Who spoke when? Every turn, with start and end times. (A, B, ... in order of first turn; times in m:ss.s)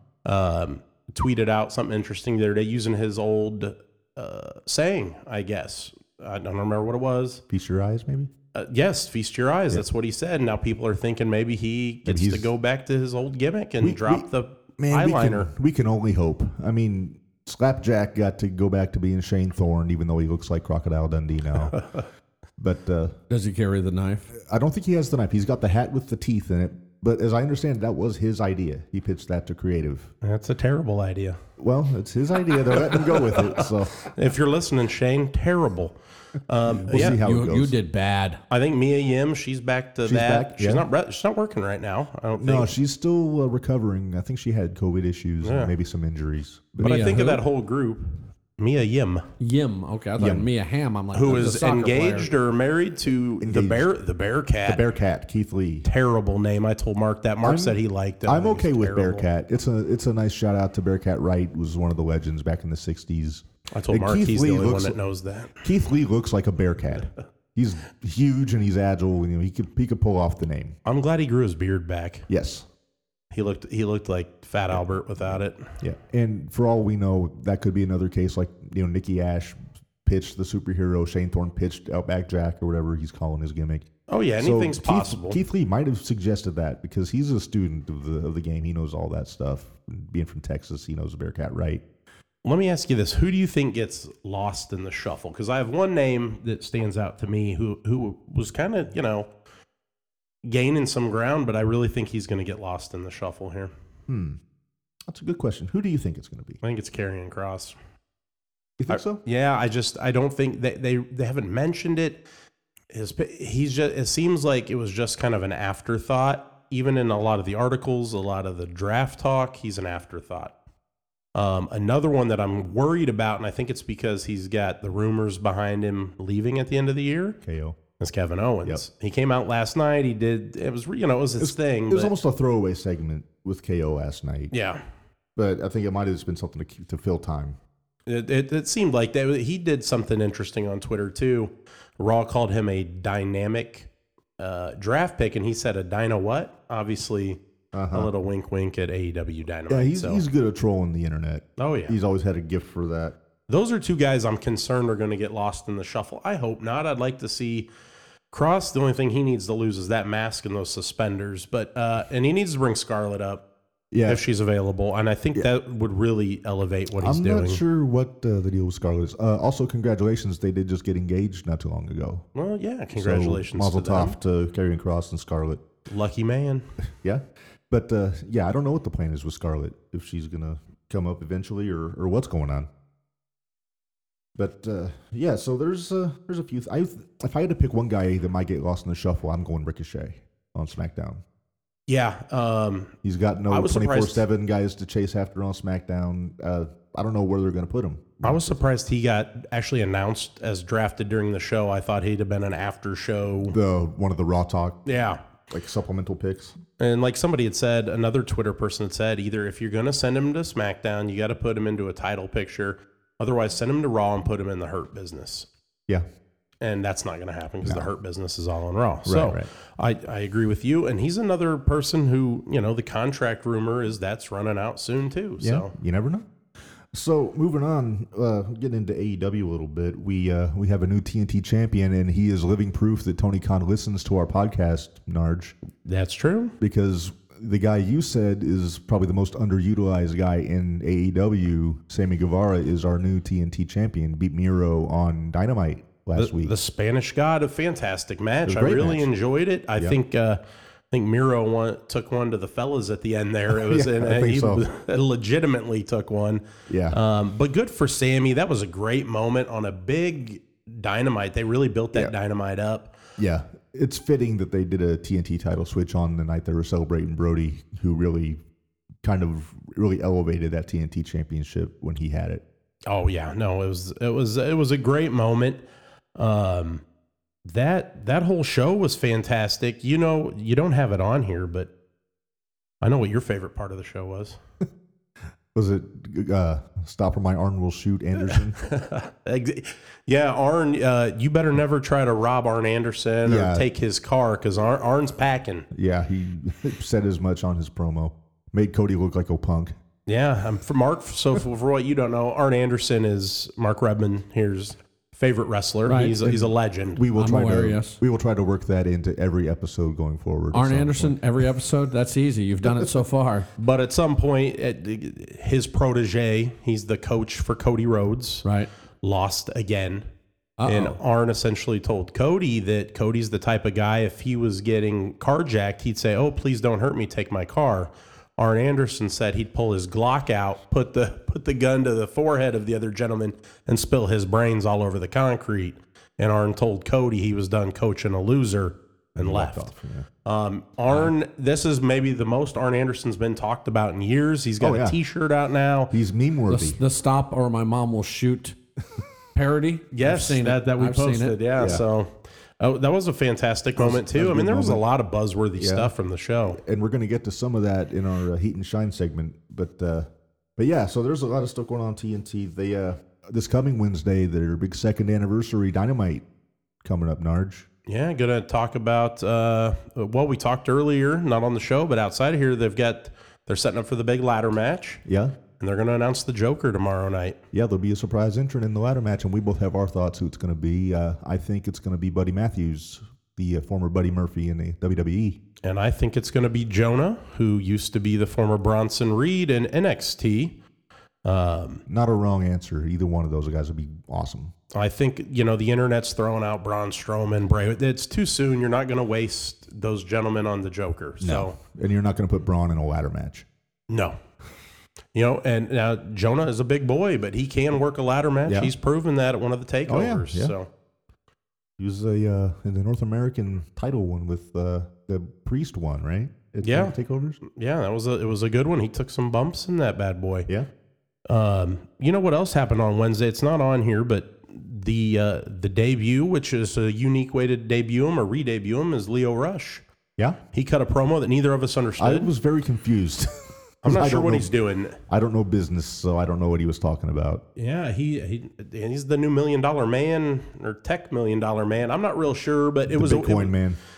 0:00.2-0:07.4 A
0:07.5-0:08.3 B
0:08.5-0:15.5 A
0:12.1-0:12.5 B
0:13.8-0:14.3 B
0:14.8-0:21.8 B
0:21.7-0:22.0 A
0:22.6-0:23.2 B
0:23.3-0:24.3 C
0:24.3-0:30.1 B
0:30.2-0:31.4 A
0:31.6-0:34.1 B
0:32.5-0:36.0 A
0:36.5-0:37.2 A
0:36.8-0:37.8 B
0:36.9-0:38.4 C
0:38.5-0:42.7 A
0:40.0-0:40.9 B
0:42.4-0:47.2 B
0:45.4-0:45.7 A
0:46.8-0:47.4 C
0:46.8-0:49.3 A
0:49.4-0:52.3 C
0:50.2-0:50.5 B
0:51.1-0:54.8 A
0:53.4-0:53.9 B
0:54.6-0:55.9 B
0:55.8-0:59.3 A
0:57.4-1:05.0 B
1:03.7-1:05.7 A
1:05.6-1:10.8 B
1:10.8-1:12.3 A
1:12.3-1:12.7 B
1:13.3-1:15.7 A
1:14.7-1:23.9 B
1:24.1-1:25.4 A
1:24.4-1:31.8 B
1:32.4-1:39.3 A
1:40.4-1:43.7 A
1:44.1-1:44.4 B
1:45.1-1:46.6 B
1:46.6-1:47.8 A
1:48.8-1:49.2 B
1:48.9-1:52.2 A
1:52.9-2:00.5 A
2:01.4-2:07.4 A
2:07.4-2:07.8 B
2:08.0-2:12.1 A
2:11.4-2:14.5 B
2:14.5-2:14.8 A
2:15.4-2:17.6 B
2:18.1-2:27.4 A
2:27.7-2:28.1 B
2:27.9-2:30.2 A
2:29.7-2:33.2 B
2:31.6-2:32.0 A
2:33.5-2:37.7 A
2:38.3-2:43.4 A
2:43.9-2:44.2 B
2:44.0-2:47.6 A
2:47.0-2:52.2 B
2:52.4-2:54.2 A
2:52.9-2:55.6 B
2:55.9-2:56.7 A
2:57.0-3:02.7 B
3:04.4-3:11.2 B
3:11.9-3:12.9 A
3:13.0-3:18.6 B
3:13.5-3:14.2 A
3:18.2-3:23.6 A
3:23.5-3:24.8 B
3:24.9-3:25.2 A
3:25.5-3:26.6 B
3:26.8-3:35.5 A
3:36.6-3:45.7 A
3:37.6-3:37.9 B
3:39.0-3:39.5 B
3:45.4-3:46.2 B
3:46.9-3:55.6 B
3:55.8-3:56.5 A
3:56.6-4:06.6 B
4:06.2-4:10.4 A
4:08.5-4:09.1 B
4:10.9-4:23.0 A
4:13.5-4:14.6 B
4:16.7-4:17.0 B
4:23.2-4:28.4 B
4:29.0-4:32.4 B
4:32.9-4:35.6 A
4:36.2-4:36.8 A
4:37.4-4:41.7 A
4:42.8-4:44.4 A
4:45.5-4:48.6 B
4:48.3-4:55.7 A
4:53.2-4:53.7 B
4:55.7-4:59.8 B
5:00.1-5:07.0 A
5:05.9-5:06.2 C
5:06.2-5:11.2 B
5:07.2-5:08.0 C
5:10.5-5:13.5 C
5:13.6-5:18.5 A
5:18.4-5:18.7 C
5:19.0-5:20.1 A
5:20.6-5:21.0 C
5:20.7-5:39.7 A
5:39.2-5:40.1 B
5:40.2-5:45.9 A
5:44.6-5:45.0 B
5:45.9-5:46.8 B
5:46.5-5:48.6 C
5:49.4-5:51.4 C
5:49.9-5:56.6 A
5:51.6-5:51.8 B
5:53.8-5:54.8 B
5:55.6-5:55.9 B
5:56.5-6:06.2 B
6:06.8-6:07.7 B
6:07.9-6:15.0 A
6:15.1-6:15.4 B
6:15.6-6:17.4 A
6:17.5-6:25.4 B
6:25.6-6:30.6 A
6:31.2-6:31.8 A
6:31.9-6:34.5 B
6:34.7-6:41.6 A
6:41.2-6:43.5 B
6:43.9-6:44.2 A
6:45.1-6:50.7 A
6:48.5-6:48.7 B
6:49.9-6:50.5 B
6:51.8-6:57.4 B
6:56.6-7:00.5 A
7:01.3-7:09.8 A
7:10.5-7:12.3 A
7:12.0-7:14.5 B
7:13.8-7:15.0 A
7:15.1-7:17.4 B
7:17.6-7:23.6 A
7:22.9-7:23.8 B